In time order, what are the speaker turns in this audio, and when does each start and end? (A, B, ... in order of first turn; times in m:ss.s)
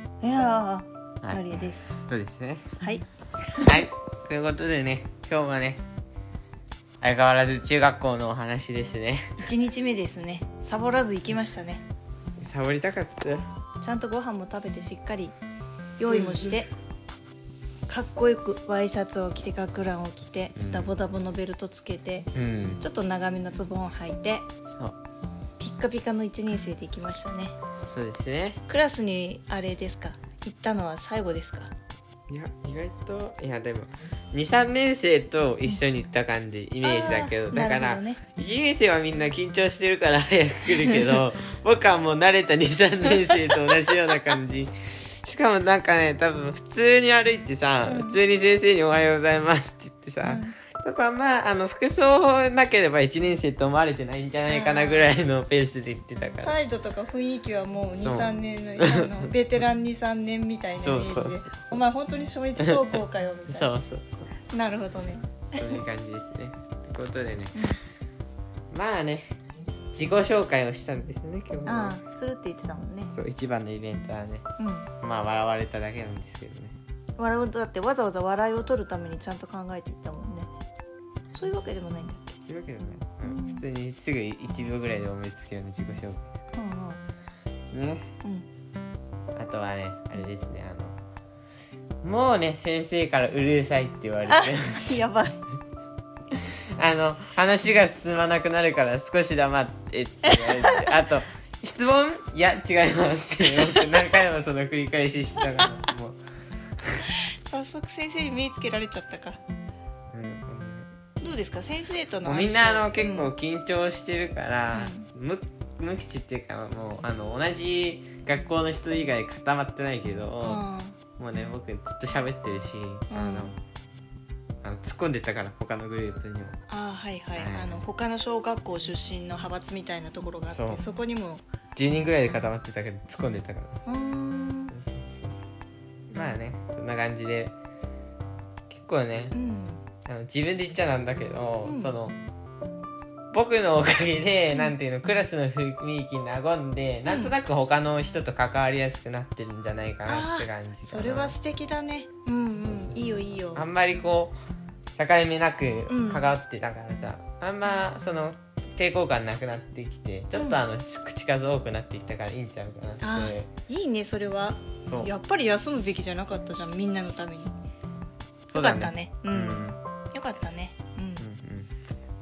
0:00.2-0:01.9 A
0:01.2-0:02.6 B
0:02.8-0:03.8 A
0:03.6-0:05.8 B
0:07.0-0:09.4 B
0:09.4-0:11.8 A
0:12.4-0:13.4 B
0:13.8-0:15.3 A
0:16.0-0:16.7 A
0:16.1-0:16.5 B
0:17.9-0:24.5 A
0:20.6-0:21.0 B
0:22.3-0:22.8 B
0:25.6-0:27.5 A
0:27.8-0:28.6 B
0:28.7-0:31.7 A
0:32.3-0:56.6 B
0:36.8-0:38.2 A
0:47.8-0:48.2 A
0:50.2-0:50.6 A
0:54.5-0:55.1 A
0:56.4-1:03.7 A
0:58.0-0:59.3 B
1:00.8-1:01.8 B
1:02.6-1:04.3 B
1:04.5-1:05.8 A
1:05.5-1:07.6 B
1:08.7-1:09.3 B
1:09.9-1:12.0 B
1:11.6-1:13.1 A
1:13.1-1:14.4 B
1:14.6-1:14.9 A
1:15.0-1:16.8 B
1:17.2-1:20.5 A
1:21.3-1:22.4 A
1:22.5-1:26.2 B
1:23.2-1:23.6 A
1:26.5-1:27.0 A
1:27.7-1:28.1 B
1:29.4-1:30.9 B
1:32.0-1:35.0 B
1:34.3-1:35.4 A
1:36.3-1:46.2 B
1:40.2-1:40.9 A
1:43.6-1:43.9 A
1:47.4-1:49.4 A
1:50.1-1:50.9 B
1:51.2-1:53.3 A
1:52.2-2:00.6 B
1:54.7-1:55.1 A
2:00.4-2:01.0 A
2:01.2-2:03.6 B
2:03.1-2:03.5 A
2:04.6-2:06.6 B
2:06.7-2:11.4 A
2:07.4-2:07.9 B
2:10.5-2:10.8 B
2:11.7-2:13.8 B
2:13.8-2:14.7 A
2:14.7-2:15.4 B
2:16.1-2:17.5 B
2:18.7-2:19.3 B
2:19.3-2:19.8 A
2:20.0-2:22.1 B
2:21.6-2:21.9 A
2:23.3-2:31.4 B
2:27.0-2:27.3 A
2:30.0-2:33.6 A
2:32.6-2:34.4 B
2:35.0-2:43.5 B
2:35.9-2:36.3 A
2:40.3-2:40.6 A
2:43.0-2:47.5 A
2:44.8-2:45.1 B
2:48.5-2:49.8 B
2:48.5-2:51.2 A
2:51.2-2:51.8 B